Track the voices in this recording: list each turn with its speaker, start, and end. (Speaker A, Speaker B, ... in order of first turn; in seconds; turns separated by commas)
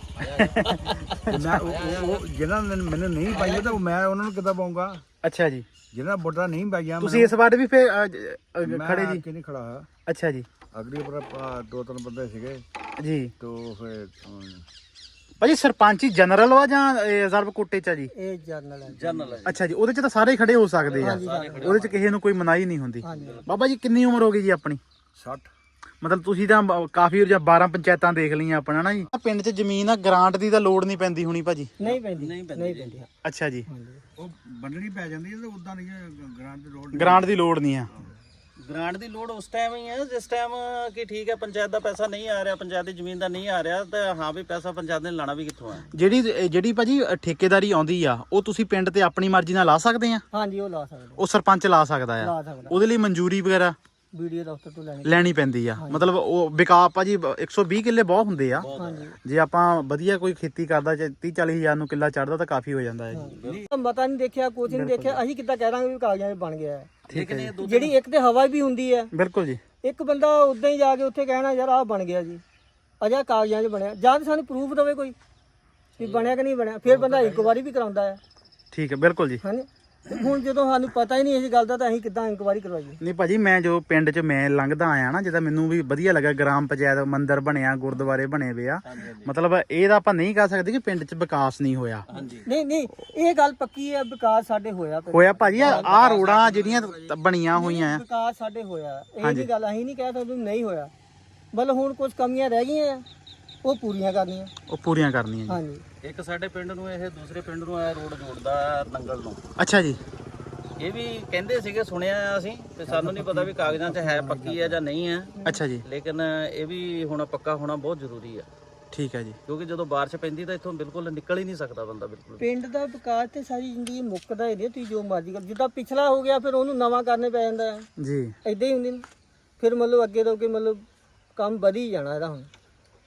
Speaker A: 0.2-2.2, Speaker B: 0.3-1.6, Speaker C: 1.3-5.0, Speaker A: 3.4-3.6, Speaker B: 5.2-5.7, Speaker C: 5.9-7.3, Speaker B: 7.0-9.2, Speaker C: 8.6-9.9, Speaker B: 10.1-10.5, Speaker C: 10.7-12.6, Speaker B: 13.0-13.3, Speaker C: 13.4-14.6, Speaker B: 15.4-18.1, Speaker D: 18.1-19.3, Speaker A: 18.9-19.6, Speaker B: 19.4-24.8, Speaker A: 20.8-22.0, Speaker D: 21.0-21.8, Speaker D: 23.0-23.5, Speaker A: 23.1-23.5, Speaker C: 25.1-25.5, Speaker B: 26.0-31.7, Speaker D: 31.8-33.1, Speaker A: 31.8-33.0, Speaker B: 33.2-33.7, Speaker D: 33.7-34.0, Speaker C: 34.2-37.3, Speaker B: 36.9-37.9, Speaker A: 38.6-45.9, Speaker B: 45.9-50.2, Speaker D: 50.3-51.2, Speaker B: 51.2-53.8, Speaker D: 52.2-52.8, Speaker D: 54.1-56.0, Speaker B: 55.0-58.7, Speaker A: 58.6-59.1, Speaker D: 58.8-59.1, Speaker B: 59.2-63.3, Speaker D: 63.1-66.9, Speaker A: 63.4-63.7, Speaker B: 64.7-65.2, Speaker B: 67.1-67.5, Speaker A: 67.1-68.0, Speaker D: 67.6-69.1, Speaker B: 69.1-69.6, Speaker D: 69.8-72.4, Speaker D: 73.0-75.1, Speaker A: 76.0-77.5, Speaker D: 76.0-78.2, Speaker B: 78.7-79.4, Speaker D: 79.4-83.0, Speaker B: 83.0-92.0, Speaker A: 88.8-89.3, Speaker A: 92.1-92.4, Speaker D: 92.1-96.0, Speaker B: 95.1-98.0, Speaker A: 95.6-97.1, Speaker D: 97.5-100.9, Speaker B: 99.2-99.5, Speaker D: 101.5-103.0, Speaker D: 103.6-104.5, Speaker B: 104.7-105.6, Speaker D: 105.5-105.8, Speaker A: 106.0-109.4, Speaker B: 109.6-110.0, Speaker A: 110.8-115.3, Speaker C: 112.9-114.8, Speaker B: 115.4-115.8, Speaker A: 115.8-118.5, Speaker B: 118.9-119.4, Speaker A: 119.5-122.5, Speaker D: 122.4-127.9, Speaker B: 128.0-128.3, Speaker D: 128.4-129.0, Speaker D: 129.6-130.8, Speaker D: 131.3-132.5